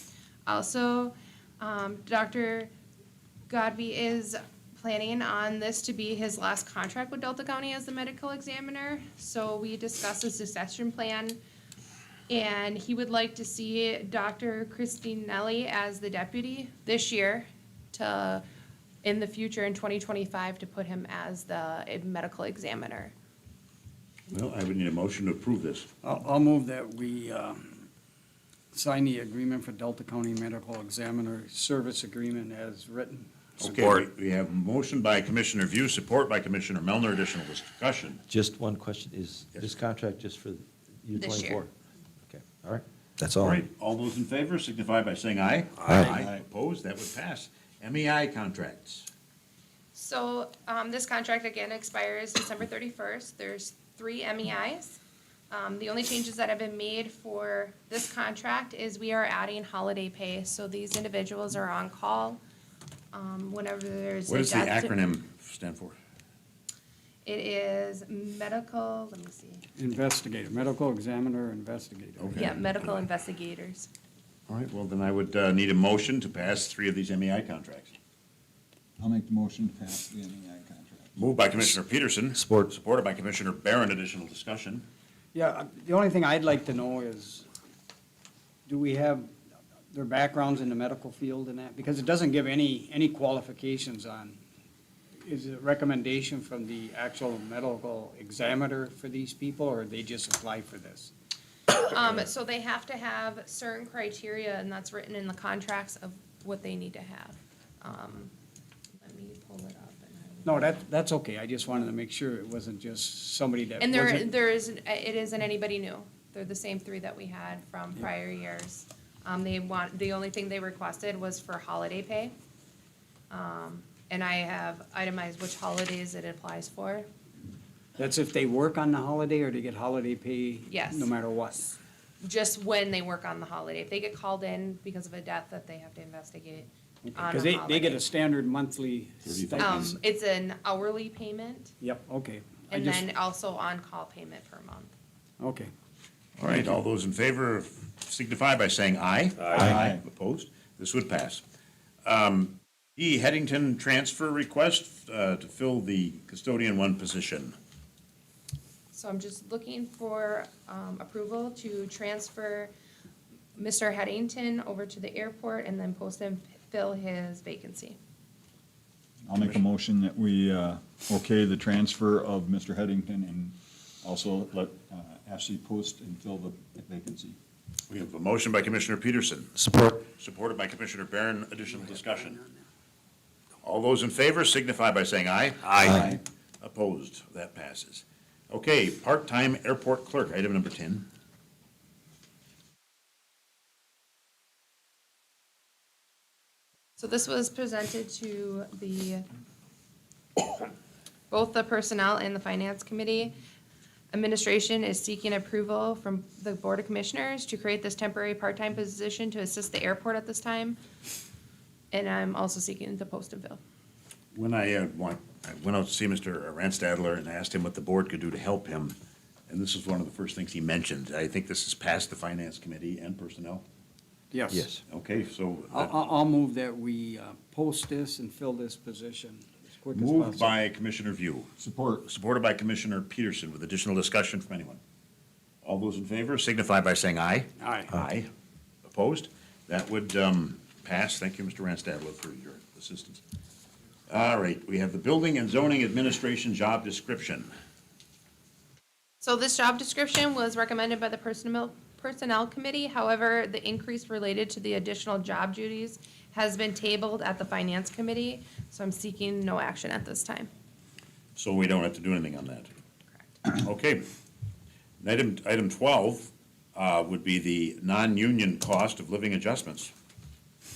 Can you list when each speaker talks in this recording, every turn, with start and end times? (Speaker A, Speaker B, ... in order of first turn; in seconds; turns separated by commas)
Speaker A: 0.5-2.7, Speaker A: 3.5-11.4, Speaker A: 12.3-18.4, Speaker A: 19.0-23.1, Speaker B: 24.3-25.9, Speaker C: 26.0-27.9, Speaker C: 28.7-34.0, Speaker B: 33.6-38.2, Speaker D: 38.3-41.7, Speaker A: 41.1-41.6, Speaker D: 42.2-43.7, Speaker B: 43.4-49.1, Speaker D: 45.8-46.2, Speaker A: 49.9-55.0, Speaker A: 55.5-62.4, Speaker A: 63.1-64.9, Speaker B: 64.3-66.0, Speaker A: 67.2-69.6, Speaker C: 69.8-72.4, Speaker B: 72.2-73.0, Speaker A: 72.3-73.9, Speaker B: 74.5-78.0, Speaker E: 79.0-81.1, Speaker B: 81.2-84.8, Speaker D: 82.3-82.7, Speaker C: 85.3-87.5, Speaker C: 88.7-89.3, Speaker C: 89.9-94.4, Speaker C: 95.2-101.1, Speaker A: 101.8-108.3, Speaker A: 109.0-110.8, Speaker C: 110.5-114.2, Speaker A: 113.8-122.3, Speaker A: 123.3-127.1, Speaker C: 128.0-131.8, Speaker A: 130.7-131.1, Speaker A: 132.2-138.0, Speaker C: 137.0-140.0, Speaker B: 139.2-139.9, Speaker A: 139.6-141.7, Speaker C: 141.8-143.0, Speaker A: 142.7-144.9, Speaker C: 145.4-145.7, Speaker B: 146.4-151.4, Speaker E: 149.6-150.0, Speaker B: 152.0-157.5, Speaker A: 158.9-162.7, Speaker A: 163.6-168.0, Speaker E: 169.3-177.4, Speaker B: 177.9-182.4, Speaker D: 179.7-180.0, Speaker B: 183.6-191.1, Speaker D: 185.8-186.1, Speaker A: 197.0-199.2, Speaker A: 201.3-203.3, Speaker A: 204.1-210.8, Speaker A: 211.9-213.6, Speaker B: 214.3-218.9, Speaker B: 219.5-223.6, Speaker C: 224.3-224.6, Speaker D: 224.5-224.8, Speaker B: 224.9-225.9, Speaker C: 225.7-230.6, Speaker B: 229.9-231.5, Speaker E: 231.6-232.1, Speaker B: 232.0-234.8, Speaker B: 235.6-238.3, Speaker C: 237.6-237.9, Speaker B: 238.8-243.2, Speaker B: 244.1-247.5, Speaker A: 249.2-260.5, Speaker B: 261.4-262.7, Speaker B: 263.4-264.0, Speaker B: 265.0-269.9